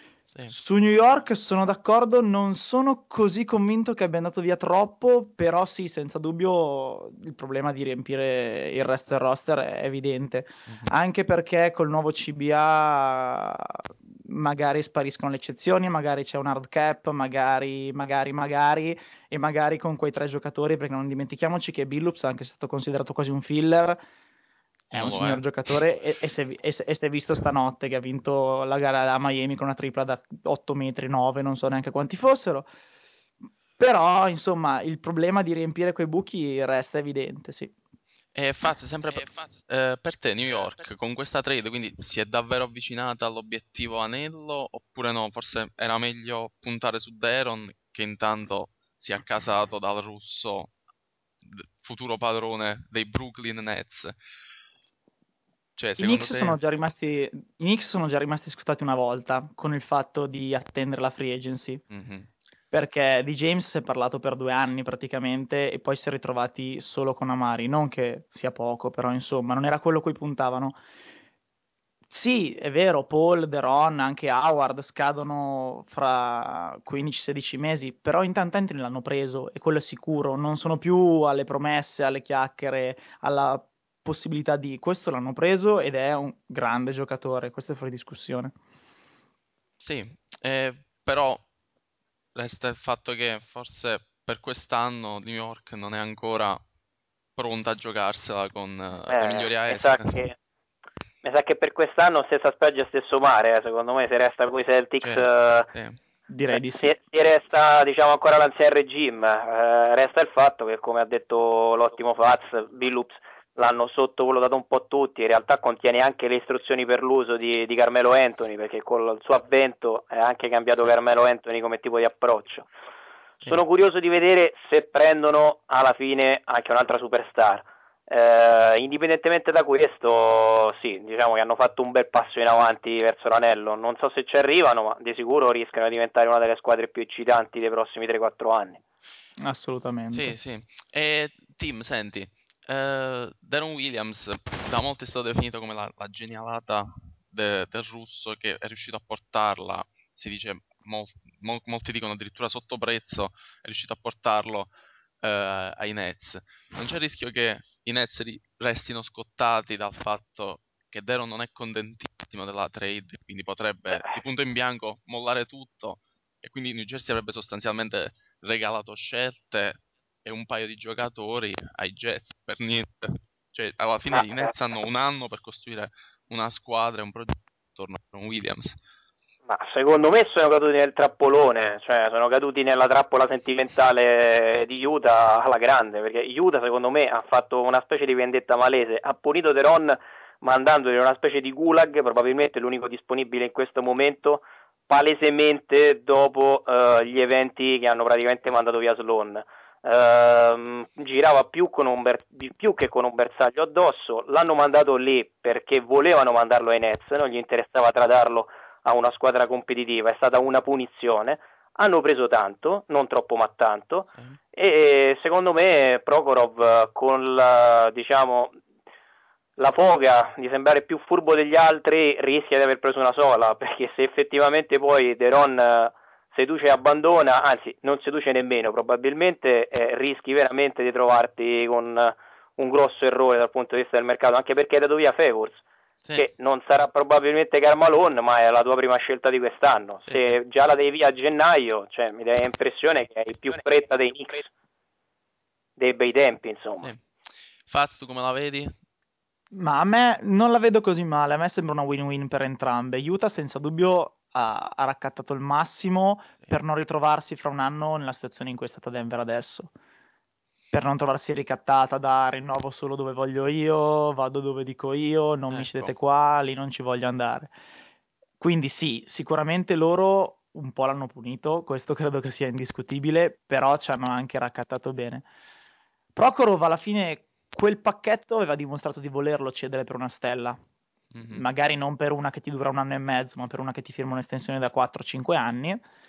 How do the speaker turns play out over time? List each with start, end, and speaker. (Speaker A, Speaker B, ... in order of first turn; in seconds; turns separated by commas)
Speaker A: 0.5-24.0, Speaker B: 24.9-25.7, Speaker A: 24.9-32.7, Speaker A: 33.8-37.7, Speaker B: 38.4-50.7, Speaker B: 51.4-54.2, Speaker B: 55.8-56.6, Speaker A: 56.0-61.8, Speaker B: 61.9-62.3, Speaker A: 62.7-70.8, Speaker A: 72.1-88.6, Speaker B: 89.8-91.4, Speaker B: 92.3-96.6, Speaker B: 97.4-100.2, Speaker C: 99.1-100.4, Speaker C: 101.2-105.7, Speaker B: 105.0-106.0, Speaker A: 106.3-106.9, Speaker C: 106.5-122.7, Speaker C: 123.4-138.8, Speaker A: 139.4-140.3, Speaker B: 140.1-154.7, Speaker B: 155.2-178.8, Speaker C: 174.1-174.5, Speaker C: 179.5-218.6, Speaker C: 219.6-235.6, Speaker C: 236.2-244.5, Speaker B: 240.1-240.3, Speaker C: 245.8-246.9, Speaker B: 247.7-248.7, Speaker A: 249.5-259.7, Speaker A: 260.7-267.5, Speaker B: 265.5-265.9, Speaker A: 268.4-275.3, Speaker A: 276.1-280.6, Speaker B: 281.1-281.5, Speaker A: 281.3-285.8